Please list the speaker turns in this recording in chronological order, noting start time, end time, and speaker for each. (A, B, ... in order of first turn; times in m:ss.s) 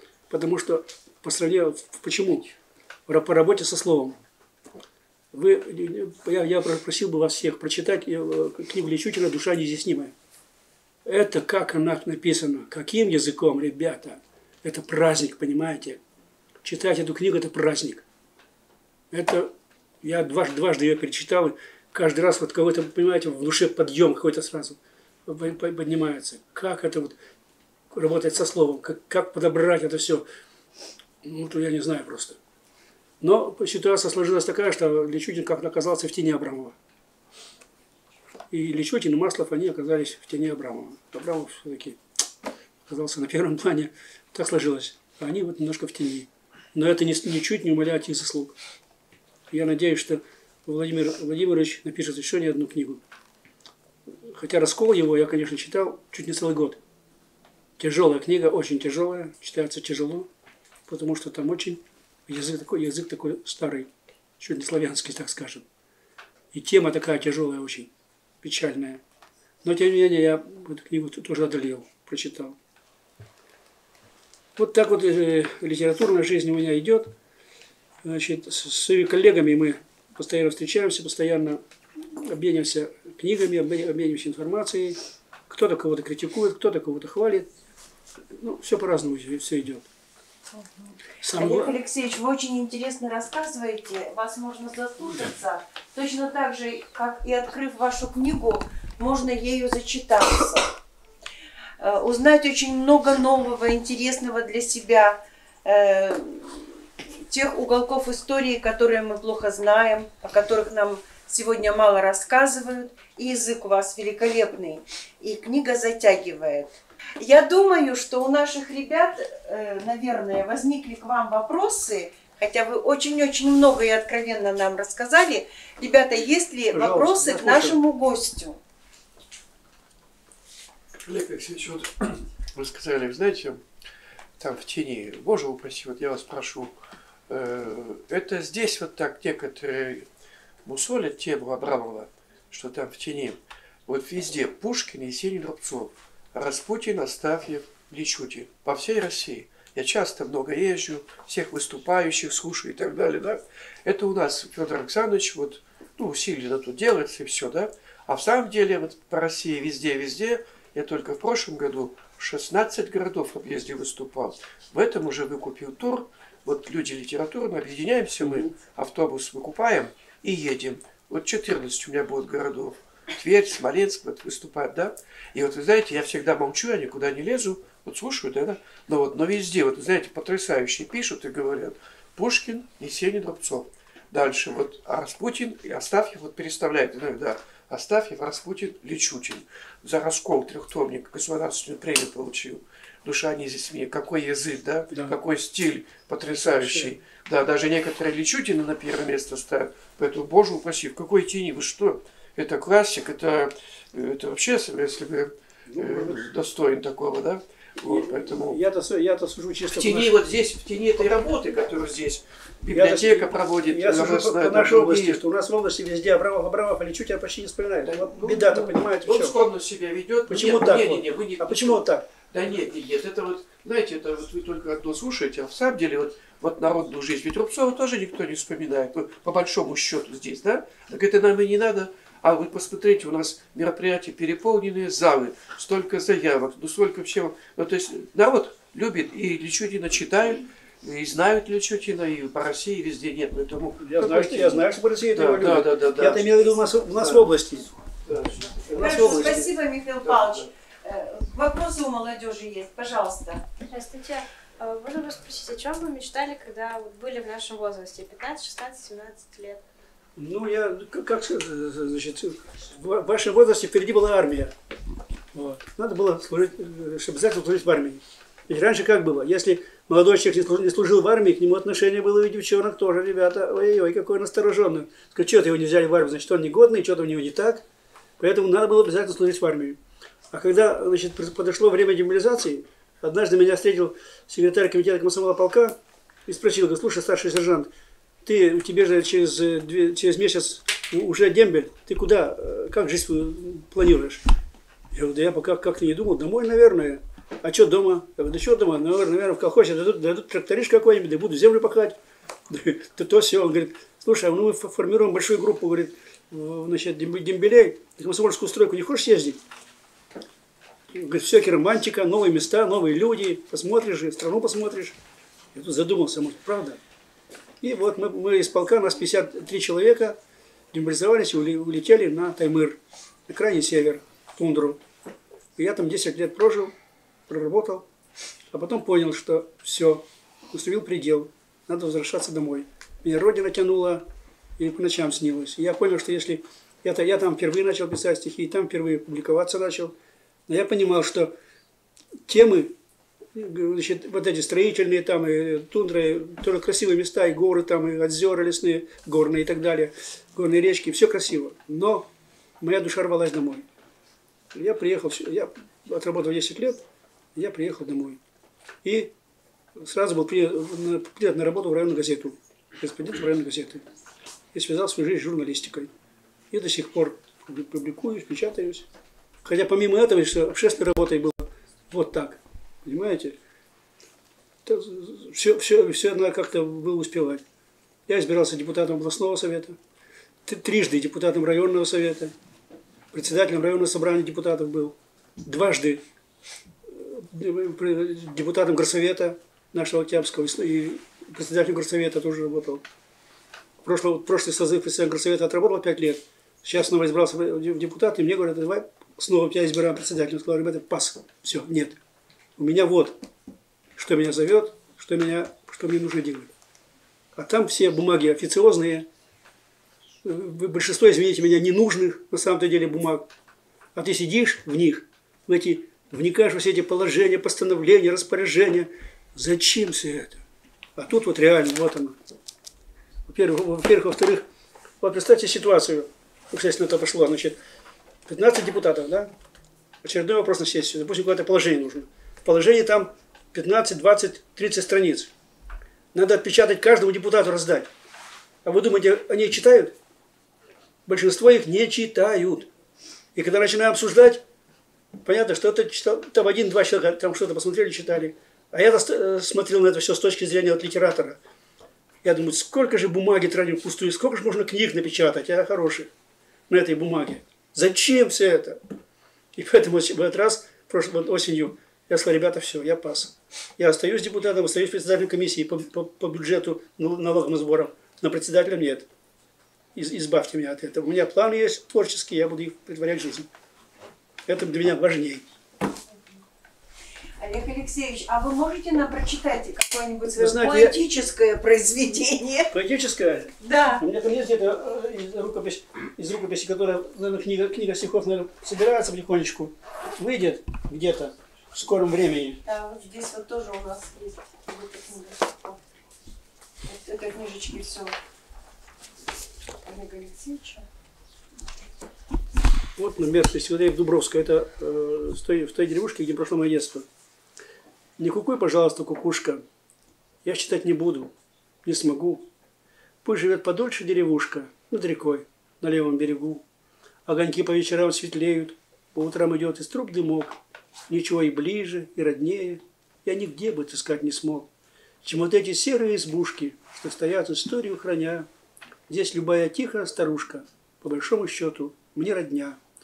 0:00.3-0:02.5 A
0:03.1-0:04.2 A
0:05.3-0:10.1 A
0:11.0-0:16.0 A
0:16.6-0:18.0 A
0:19.1-0:19.5 A
0:20.0-0:27.2 A
0:27.9-0:30.2 A
0:31.2-0:32.4 A
0:33.2-0:36.8 A
0:38.5-0:42.0 A
0:42.9-0:48.6 A
0:49.5-0:53.0 A
0:54.1-0:56.8 A
0:57.8-1:00.3 A
1:00.9-1:05.6 A
1:06.5-1:07.9 A
1:08.4-1:09.0 A
1:09.6-1:12.6 A
1:14.6-1:17.1 A
1:18.0-1:27.5 A
1:28.3-1:29.8 A
1:30.6-1:40.7 B
1:31.2-1:31.7 A
1:41.8-2:08.6 B
2:06.7-2:07.8 A
2:11.0-2:13.6 C
2:14.4-2:16.7 C
2:17.3-2:20.1 C
2:20.6-3:28.6 C
3:25.7-3:26.3 A
3:27.8-3:30.2 A
3:29.7-3:35.2 C
3:32.7-3:39.4 A
3:37.8-4:07.3 C
3:40.3-3:42.0 A
4:03.8-4:07.7 A
4:08.0-4:09.5 C
4:08.7-4:09.5 A
4:08.7-4:13.4 B
4:10.0-4:10.4 C
4:13.6-4:19.6 D
4:20.2-4:24.5 A
4:25.3-4:37.6 A
4:38.2-4:39.8 A
4:40.3-4:47.7 A
4:48.2-4:54.2 A
4:54.9-5:02.0 A
5:02.5-5:09.4 A
5:10.9-5:15.0 A
5:15.5-5:16.8 A
5:17.6-5:20.2 A
5:20.7-5:24.8 A
5:25.6-5:26.7 A
5:27.3-5:27.9 A
5:28.5-5:34.0 A
5:34.6-5:40.0 A
5:40.5-5:41.3 A
5:42.2-5:42.8 A
5:43.3-5:53.6 A
5:54.5-5:56.8 A
5:57.3-5:58.2 A
5:58.8-5:59.1 A
5:59.7-6:03.8 A
6:04.5-6:05.9 A
6:06.5-6:08.9 A
6:09.4-6:13.4 A
6:14.6-6:17.4 A
6:18.1-6:19.8 A
6:20.4-6:22.3 A
6:23.1-6:26.0 A
6:26.9-6:32.8 A
6:33.8-6:42.0 A
6:42.6-6:43.2 A
6:44.0-6:46.5 A
6:47.3-6:49.1 A
6:50.2-6:53.3 A
6:53.9-7:00.4 A
7:01.0-7:02.2 A
7:03.3-7:04.4 A
7:05.0-7:07.6 A
7:08.3-7:09.3 A
7:10.0-7:15.3 A
7:16.1-7:17.9 A
7:18.6-7:20.0 A
7:21.0-7:22.7 A
7:23.3-7:24.4 A
7:25.2-7:31.4 A
7:32.2-7:36.1 A
7:36.7-7:38.8 A
7:39.6-7:49.1 A
7:49.9-7:53.5 A
7:54.4-7:55.4 A
7:57.4-8:02.7 B
8:00.4-8:01.0 A
8:02.7-8:12.6 A
8:03.6-8:04.0 B
8:12.6-8:15.8 B
8:16.8-8:18.2 B
8:19.8-8:20.8 B
8:23.0-8:27.0 A
8:28.2-8:29.6 A
8:30.4-8:31.3 A
8:31.8-8:32.4 A
8:33.2-8:36.6 A
8:37.2-8:40.6 A
8:41.1-8:44.7 A
8:45.2-8:48.5 A
8:49.1-8:52.8 A